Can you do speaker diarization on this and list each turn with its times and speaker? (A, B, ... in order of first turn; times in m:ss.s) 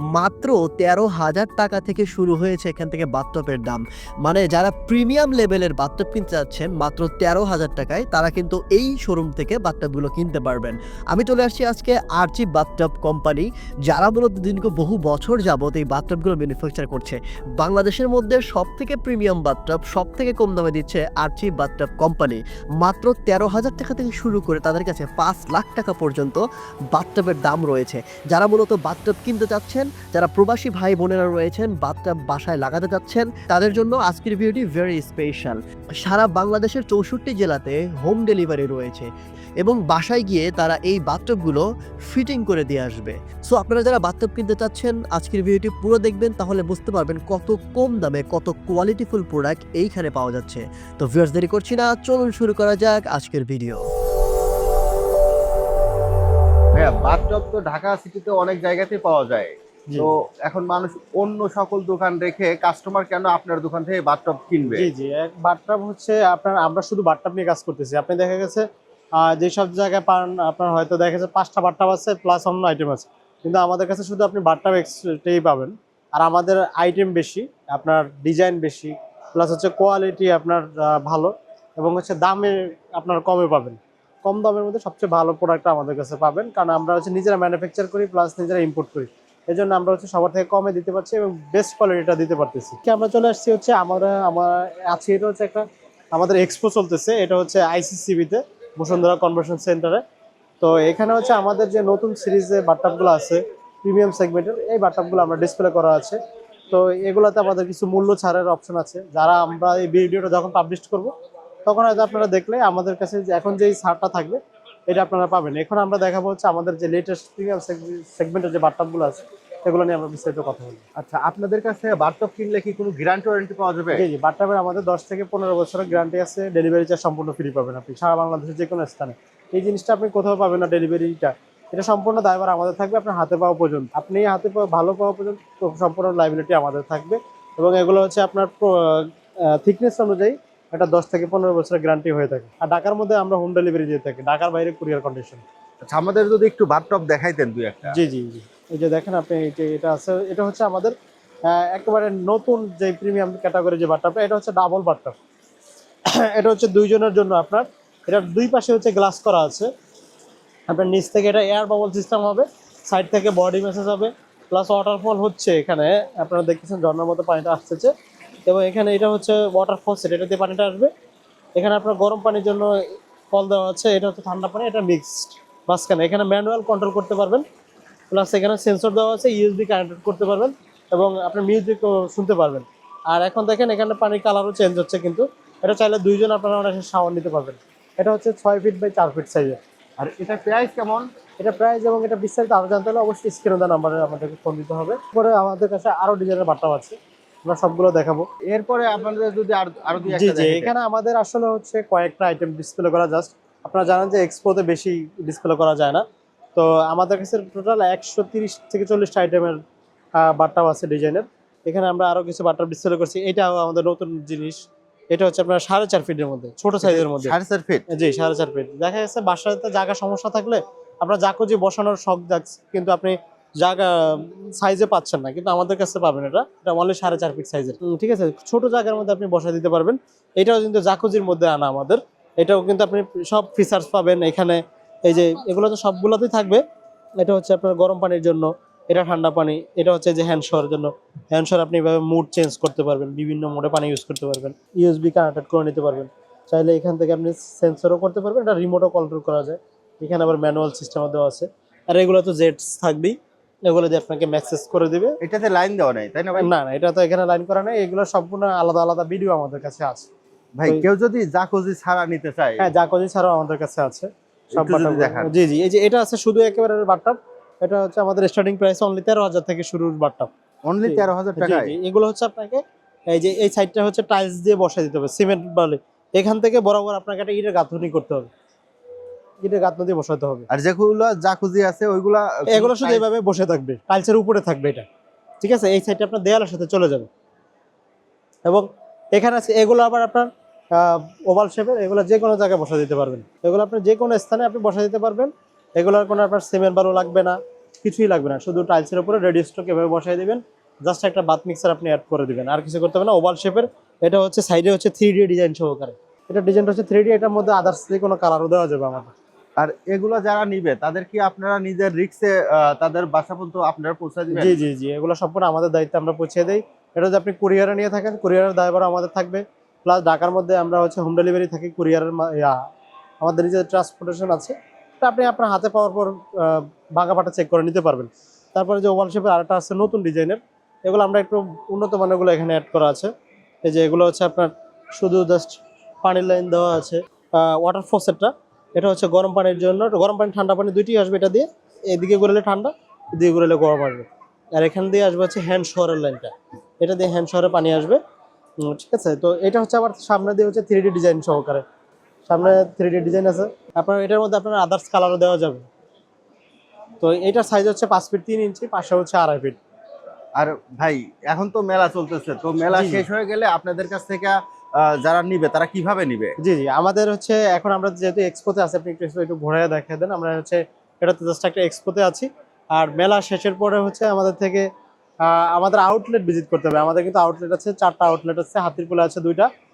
0:00.1-0:39.1 A
0:39.6-0:53.8 A
0:56.7-1:04.9 B
1:04.8-1:08.6 C
1:09.2-1:40.0 C
1:40.6-1:46.2 C
1:46.7-1:51.1 C
1:51.6-2:00.8 C
2:01.0-2:04.0 B
2:03.9-2:25.4 C
2:25.8-2:27.9 B
2:27.9-2:30.9 C
2:31.5-2:35.2 C
2:36.1-2:39.7 C
2:40.7-2:47.9 C
2:48.5-2:50.9 C
2:51.6-2:52.7 C
2:53.3-2:57.4 C
2:58.1-3:09.6 C
3:10.0-3:11.1 B
3:11.4-3:18.3 C
3:18.4-3:20.7 B
3:20.1-3:26.0 C
3:26.6-3:29.6 C
3:30.2-3:34.6 C
3:35.1-3:37.4 C
3:36.8-3:37.8 B
3:37.9-3:56.6 C
3:57.2-4:15.2 C
4:15.2-4:16.5 B
4:16.4-4:20.1 C
4:20.6-4:22.6 B
4:22.6-4:30.3 C
4:24.5-4:25.3 B
4:30.6-4:31.7 B
4:30.8-4:38.3 C
4:39.4-4:40.5 C
4:40.5-4:43.0 B
4:42.5-4:44.8 C
4:45.4-4:47.1 C
4:48.4-5:09.1 C
5:09.6-5:14.6 B
5:14.3-5:22.6 C
5:23.2-5:33.1 C
5:33.6-5:48.0 C
5:48.6-5:51.6 C
5:52.3-5:55.6 C
5:57.0-5:59.6 C
6:00.4-6:06.3 B
6:02.7-6:03.0 C
6:06.4-6:14.6 C
6:15.2-6:19.5 C